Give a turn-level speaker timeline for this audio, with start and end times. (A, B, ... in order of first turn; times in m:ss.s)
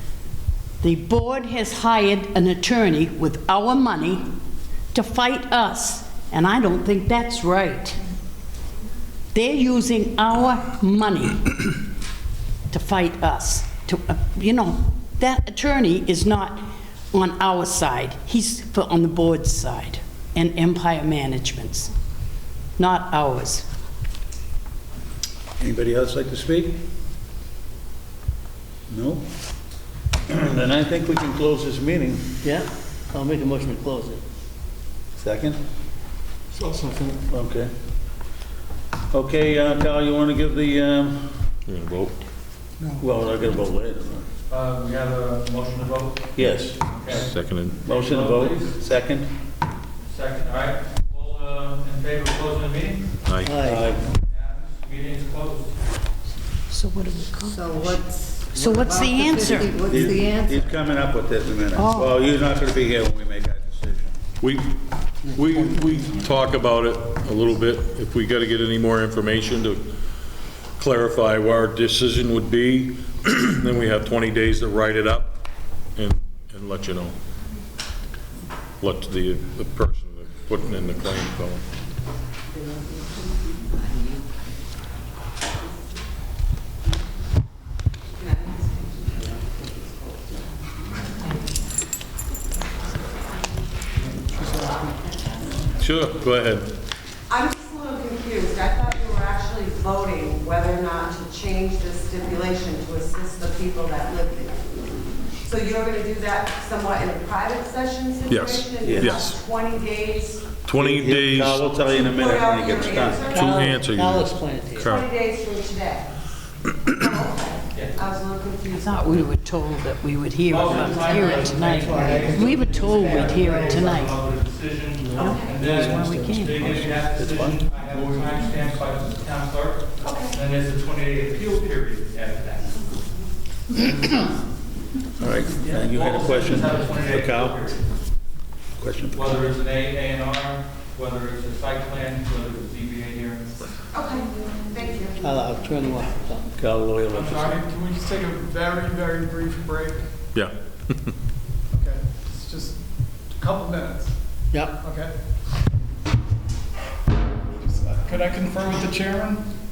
0:00.8-0:04.2 A
0:04.9-0:08.0 A
0:09.3-0:11.8 A
0:12.7-0:21.9 A
0:22.8-0:23.7 A
0:25.6-0:26.8 B
0:28.9-0:29.2 B
0:30.3-0:32.4 B
0:32.4-0:34.2 C
0:35.2-0:35.6 B
0:36.6-0:37.1 D
0:37.3-0:37.7 B
0:39.1-0:41.4 B
0:41.6-0:42.2 E
0:43.0-0:44.2 B
0:44.5-0:46.3 F
0:46.4-0:46.8 B
0:46.8-0:47.3 F
0:47.1-0:47.9 E
0:47.8-0:48.7 F
0:47.8-0:49.3 B
0:50.0-0:53.2 F
0:53.2-0:53.6 E
0:53.4-0:54.0 C
0:53.6-0:54.0 B
0:54.0-0:55.8 F
0:56.7-0:57.9 A
0:57.4-1:00.7 G
0:58.5-0:59.8 A
0:59.9-1:04.1 B
1:01.7-1:02.1 A
1:04.4-1:09.9 E
1:10.8-1:15.4 E
1:16.0-1:17.1 E
1:18.8-1:21.6 E
1:22.5-1:23.5 H
1:23.8-1:24.2 G
1:28.2-1:31.4 H
1:34.4-1:34.8 D
1:35.8-1:36.7 E
1:37.3-1:44.6 H
1:45.4-1:50.5 H
1:48.3-1:49.4 E
1:48.8-1:49.1 B
1:50.6-1:51.6 E
1:50.8-1:53.3 B
1:52.0-1:53.8 H
1:53.3-1:55.1 E
1:53.4-1:54.9 C
1:54.8-1:56.2 H
1:56.9-1:59.3 H
1:58.7-2:04.1 A
2:00.5-2:12.8 F
2:01.8-2:02.4 C
2:01.9-2:03.7 G
2:05.0-2:05.3 C
2:05.1-2:06.9 A
2:05.2-2:05.6 H
2:06.6-2:07.6 B
2:10.0-2:10.3 H
2:15.2-2:17.7 B
2:15.7-2:17.8 F
2:18.8-2:19.4 B
2:19.1-2:23.5 F
2:23.9-2:25.3 H
2:25.2-2:26.5 C
2:26.6-2:27.5 B
2:27.1-2:27.6 F
2:27.4-2:30.1 D
2:30.3-2:31.1 E
2:31.7-2:32.8 D
2:33.3-2:34.1 D
2:34.5-2:34.8 C
2:34.8-2:35.1 D
2:37.6-2:39.5 D